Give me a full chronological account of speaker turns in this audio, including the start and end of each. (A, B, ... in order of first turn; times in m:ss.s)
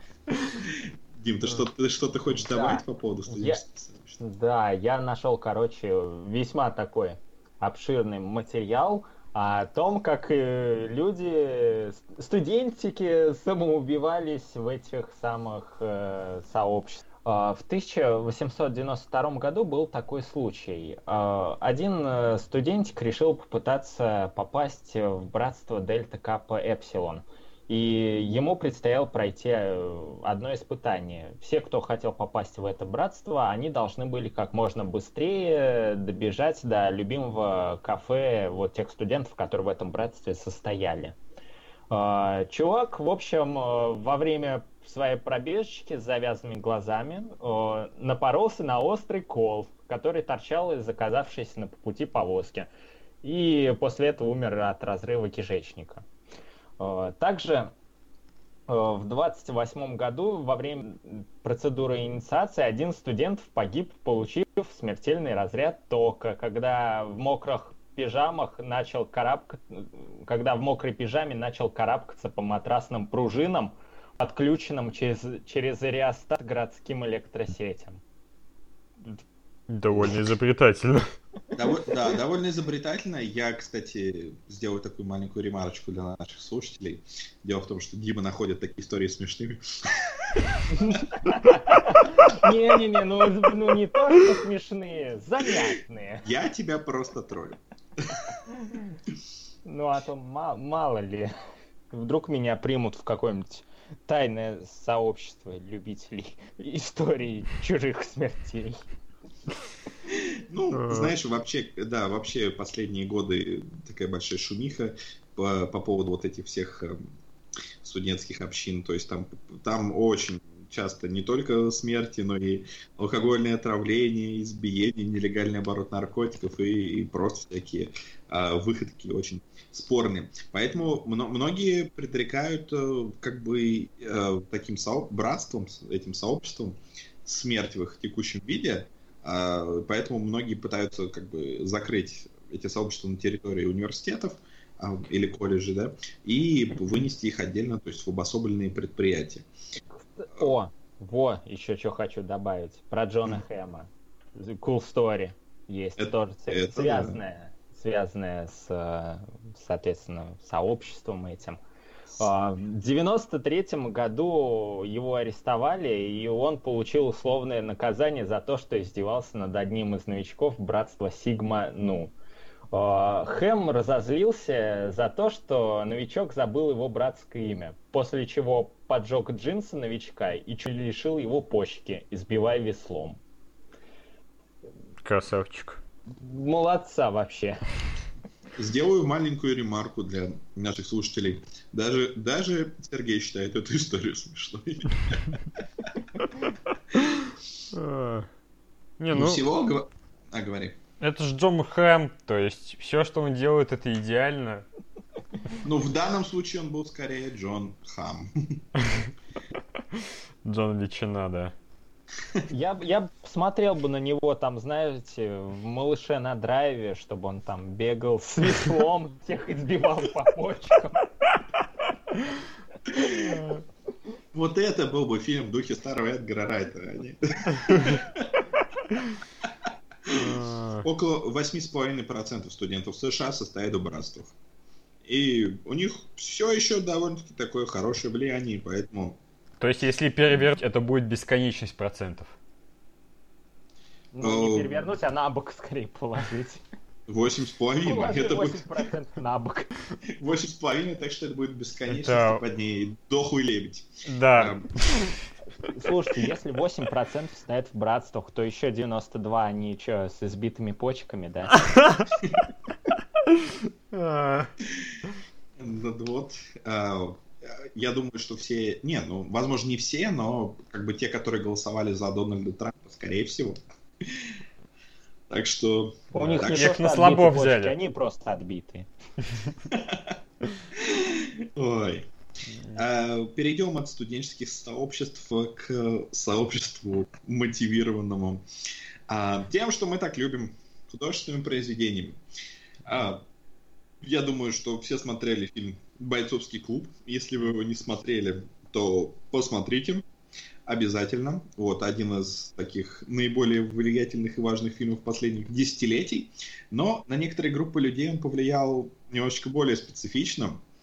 0:00.4-0:04.2 A
0:02.4-0:03.6 B
0:04.2-0:41.2 B
0:41.9-0:52.7 B
0:53.2-0:56.0 B
0:56.8-0:57.7 B
0:58.7-1:18.0 B
1:19.7-1:21.1 C
1:21.5-1:31.0 A
1:30.8-1:36.2 B
1:36.2-1:38.2 A
1:38.5-1:38.8 B
1:39.6-1:41.3 B
1:41.9-1:48.8 B
1:50.1-1:57.0 A
1:50.7-1:51.1 C
1:57.8-2:29.4 A
2:30.1-2:41.6 B
2:36.0-2:37.2 A
2:42.2-2:52.1 B
2:52.7-3:03.2 B
3:05.0-3:05.8 C
3:06.2-3:07.6 B
3:08.6-3:16.3 A
3:17.7-3:18.3 C
3:19.0-3:19.4 C
3:19.1-3:20.8 A
3:21.0-3:24.6 C
3:25.6-3:28.6 A
3:29.9-3:31.5 C
3:32.5-3:41.4 B
3:42.9-3:43.4 B
3:44.3-3:48.4 A
3:50.1-3:54.3 A
3:50.2-3:50.8 C
3:55.0-3:59.2 A
3:59.6-4:02.3 C
4:04.1-4:06.6 B
4:04.2-4:04.8 A
4:07.1-4:08.7 A
4:07.8-4:09.8 B
4:10.2-4:14.7 A
4:11.9-4:12.4 C
4:14.0-4:14.6 C
4:15.7-4:21.9 B
4:21.7-4:22.0 C
4:23.3-4:24.5 C
4:25.6-4:34.3 A
4:35.3-4:36.8 A
4:36.1-4:38.9 B
4:36.4-4:37.8 C
4:39.6-4:40.2 A
4:40.7-4:42.1 A
4:42.6-4:42.8 C
4:42.7-4:48.4 A
4:49.1-4:52.2 A
4:52.8-4:53.2 A
4:54.0-5:00.0 A
5:00.6-5:10.6 A